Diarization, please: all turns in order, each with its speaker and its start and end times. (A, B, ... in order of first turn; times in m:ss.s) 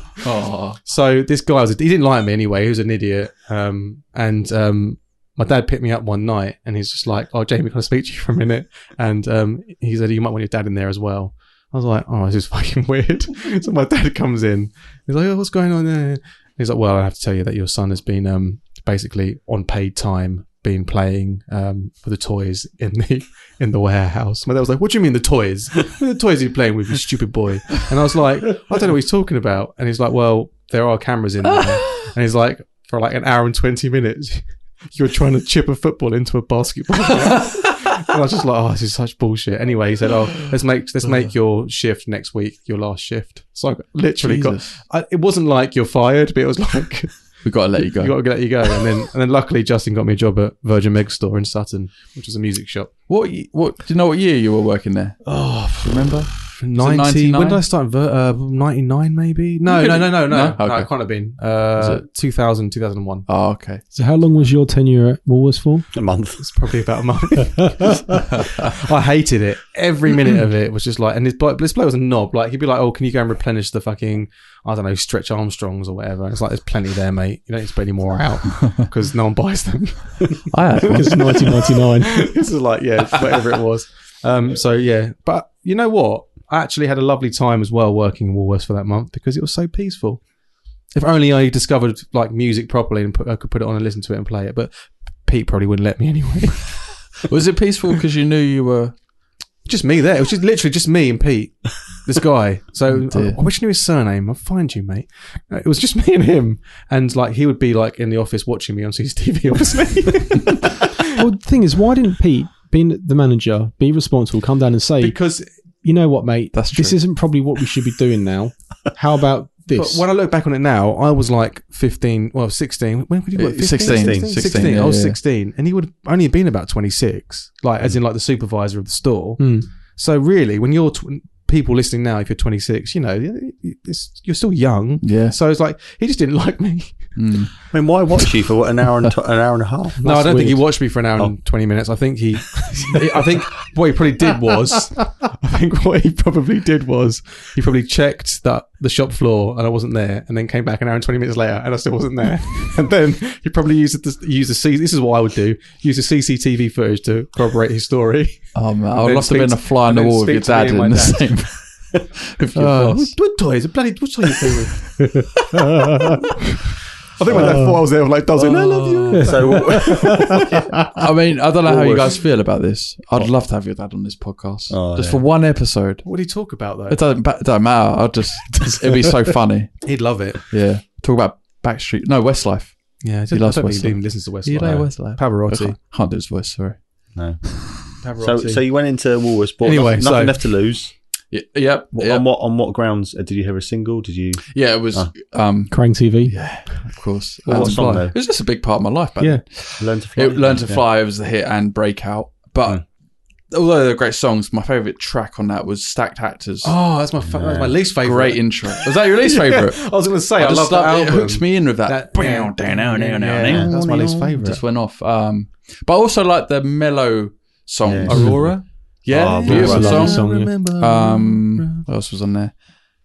0:00.2-0:00.8 A
0:00.8-0:52.9 B
0:44.2-0:44.8 A
0:47.4-0:48.4 A
0:53.1-0:57.6 A
0:55.3-1:03.3 B
0:59.6-1:01.1 A
1:01.8-1:02.0 A
1:03.3-1:03.8 A
1:03.9-1:05.9 C
1:05.9-1:06.4 D
1:06.4-1:30.2 B
1:20.5-1:21.4 A
1:20.8-1:22.2 C
1:30.9-1:37.2 B
1:37.2-1:38.9 A
1:39.6-1:51.0 B
1:42.9-1:43.4 A
1:51.2-1:55.2 C
1:55.0-1:55.5 B
1:55.8-2:00.0 C
1:56.5-1:57.0 A
1:59.7-2:17.3 B
2:03.3-2:05.2 A
2:03.8-2:04.6 D
2:09.4-2:09.7 C
2:15.0-2:15.4 A
2:17.2-2:17.7 A
2:17.7-2:20.1 D
2:20.0-2:20.7 C
2:20.0-2:41.3 B
2:38.5-2:43.2 A
2:42.5-2:45.0 B
2:45.6-2:46.0 C
2:47.1-2:50.6 B
2:47.3-2:47.6 D
2:47.3-2:47.8 C
2:48.4-2:50.5 D
2:48.6-2:49.3 A
2:49.1-2:50.5 C
2:50.8-2:56.2 A
2:51.6-2:52.2 D
2:54.7-2:55.2 D
2:56.0-2:57.0 B
2:56.9-3:07.7 A
2:59.8-3:00.4 B
3:03.0-3:05.8 B
3:07.1-3:10.9 D
3:08.0-3:08.6 B
3:09.6-3:10.4 B
3:11.3-3:12.2 A
3:11.9-3:15.1 D
3:14.5-3:22.8 A
3:15.7-3:16.3 C
3:17.4-3:18.1 B
3:17.5-3:18.1 D
3:19.8-3:20.8 D
3:23.5-3:26.8 A
3:26.6-3:34.6 B
3:27.2-3:27.8 D
3:28.0-3:42.5 A
3:33.4-3:34.1 D
3:37.8-3:38.5 D
3:38.1-3:38.6 B
3:38.1-3:38.3 C
3:39.1-3:40.2 D
3:39.3-3:41.8 B
3:39.4-3:40.5 C